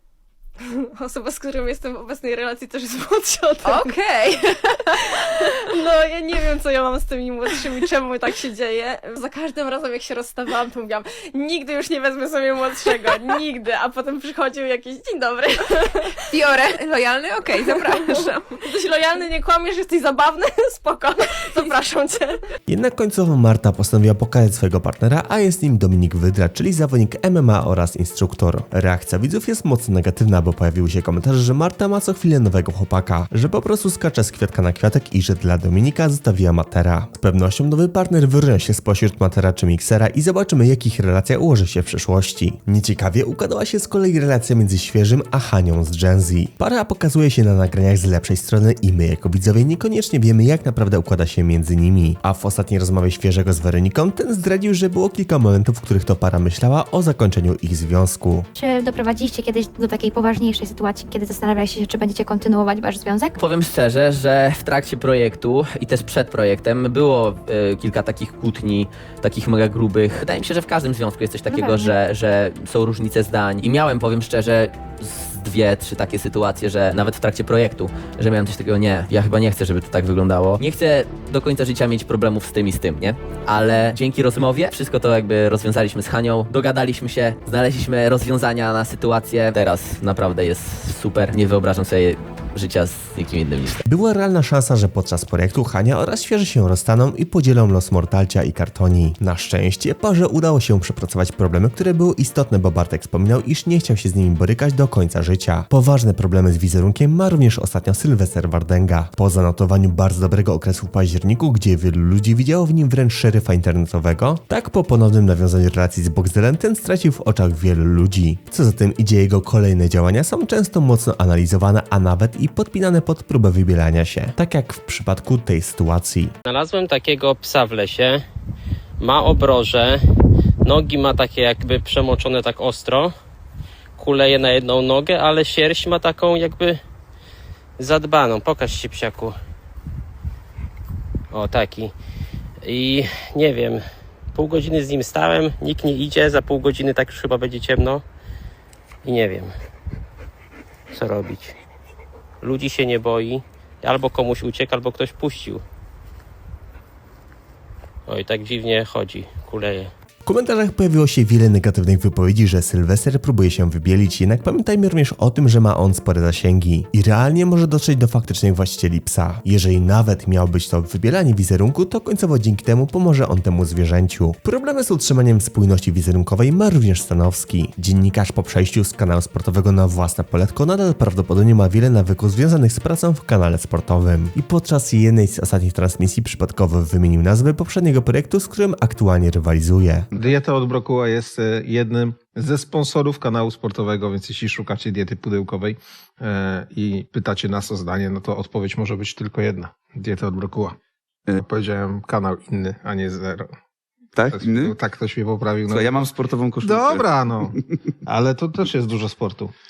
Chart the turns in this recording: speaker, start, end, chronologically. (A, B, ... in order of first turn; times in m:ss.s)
0:00.6-0:16.5 A
0:03.7-0:04.3 B
0:16.3-0:18.3 B
0:17.5-0:22.4 A
0:22.7-0:58.5 C
0:58.6-1:03.3 D
1:03.4-1:33.8 E
1:11.5-1:12.0 D
1:33.9-2:06.3 C
2:06.5-2:08.2 F
2:09.0-2:10.0 F
2:10.6-2:13.1 F
2:14.0-2:16.8 F
2:17.8-2:19.4 F
2:21.3-2:21.9 F
2:22.6-2:23.8 F
2:24.3-2:28.0 F
2:29.0-2:29.5 F
2:30.9-2:31.5 F
2:32.4-2:35.6 F
2:38.1-2:39.9 F
2:40.2-3:10.1 C
3:10.2-3:20.8 G
3:21.5-3:23.5 G
3:24.2-3:24.8 H
3:24.3-3:25.7 G
3:25.7-3:27.7 H
3:26.7-3:27.5 G
3:28.1-3:29.5 G